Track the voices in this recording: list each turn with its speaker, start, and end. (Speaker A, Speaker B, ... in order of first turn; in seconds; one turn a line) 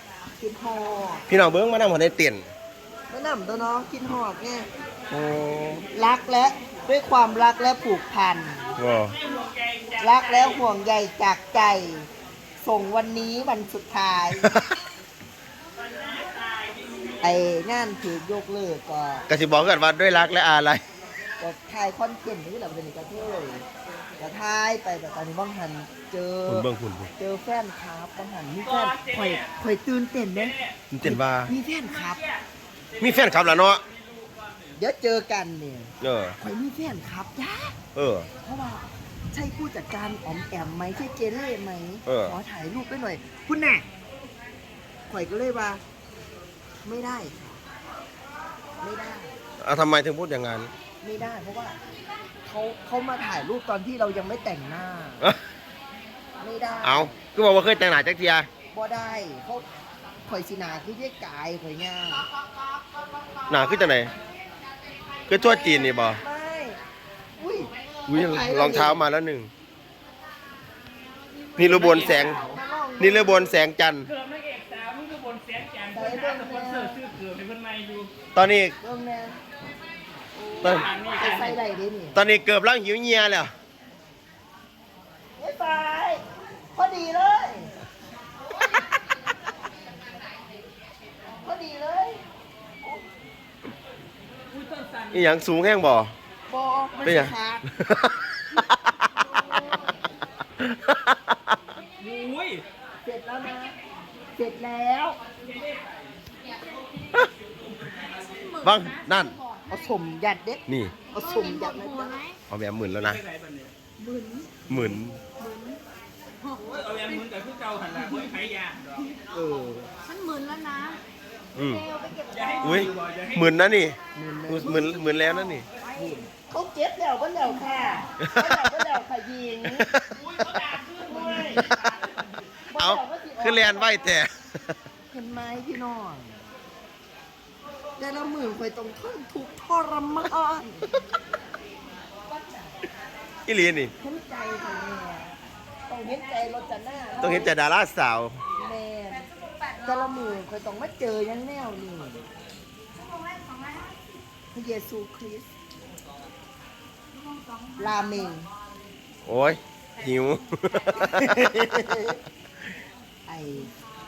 Speaker A: 0.4-1.2
Speaker B: 1.3-2.5
Speaker A: 3.1-4.7
Speaker B: 5.1-5.7
Speaker A: 5.7-8.8
Speaker B: 8.8-9.2
Speaker C: 9.2-10.2
Speaker A: 10.0-12.1
Speaker A: 12.6-14.5
Speaker B: 14.4-14.7
Speaker C: 16.5-17.0
Speaker A: 17.2-19.3
Speaker B: 19.3-20.8
Speaker A: 21.4-23.7
Speaker A: 24.2-32.2
Speaker B: 26.5-27.1
Speaker C: 28.7-29.5
Speaker B: 30.9-31.5
Speaker B: 33.0-33.8
Speaker A: 34.8-37.8
Speaker B: 36.0-36.4
Speaker B: 38.0-38.3
Speaker A: 38.4-43.9
Speaker B: 42.1-42.4
Speaker A: 45.1-45.8
Speaker A: 46.8-47.6
Speaker A: 48.8-49.4
Speaker B: 49.6-50.7
Speaker A: 51.0-51.8
Speaker A: 52.5-55.3
Speaker A: 56.4-57.2
Speaker B: 56.8-58.5
Speaker A: 58.7-59.7
Speaker A: 60.2-62.3
Speaker B: 63.5-64.1
Speaker B: 65.3-66.2
Speaker A: 65.3-66.8
Speaker A: 67.4-69.0
Speaker B: 68.1-69.5
Speaker B: 71.6-72.4
Speaker C: 71.6-72.6
Speaker A: 71.7-73.6
Speaker B: 73.0-74.1
Speaker C: 74.1-78.1
Speaker A: 75.9-77.0
Speaker B: 78.3-78.8
Speaker A: 78.8-79.4
Speaker A: 80.4-82.2
Speaker B: 80.6-80.9
Speaker C: 80.8-81.5
Speaker B: 82.2-83.5
Speaker A: 85.4-87.7
Speaker A: 91.3-92.2
Speaker A: 92.8-93.1
Speaker C: 94.5-95.3
Speaker B: 95.1-96.1
Speaker A: 96.5-97.7
Speaker B: 97.0-98.9
Speaker A: 99.5-100.0
Speaker B: 100.6-101.5
Speaker C: 102.0-102.7
Speaker A: 103.0-103.8
Speaker A: 104.3-105.2
Speaker C: 105.5-105.8
Speaker D: 108.3-108.6
Speaker B: 108.6-109.4
Speaker A: 109.7-112.2
Speaker B: 110.7-111.0
Speaker D: 111.6-112.4
Speaker B: 112.5-113.2
Speaker C: 112.9-113.7
Speaker D: 114.0-114.6
Speaker B: 114.7-115.2
Speaker D: 115.4-115.8
Speaker C: 116.5-118.9
Speaker A: 119.3-119.9
Speaker D: 120.1-121.0
Speaker B: 121.6-121.8
Speaker C: 122.3-123.5
Speaker B: 122.6-124.0
Speaker A: 124.1-125.2
Speaker B: 124.5-125.7
Speaker A: 125.9-129.9
Speaker B: 128.3-128.7
Speaker B: 129.7-130.2
Speaker C: 130.2-131.6
Speaker A: 131.0-131.7
Speaker A: 132.7-134.2
Speaker B: 132.8-134.7
Speaker A: 135.1-136.5
Speaker A: 138.0-140.9
Speaker A: 142.3-142.8
Speaker B: 143.5-143.9
Speaker A: 144.0-145.3
Speaker A: 145.9-147.5
Speaker B: 147.2-148.4
Speaker A: 148.6-149.3
Speaker A: 149.8-152.3
Speaker D: 153.3-153.7
Speaker A: 154.5-155.5
Speaker A: 157.8-158.5
Speaker B: 159.2-161.6
Speaker A: 161.2-162.2
Speaker A: 163.3-163.7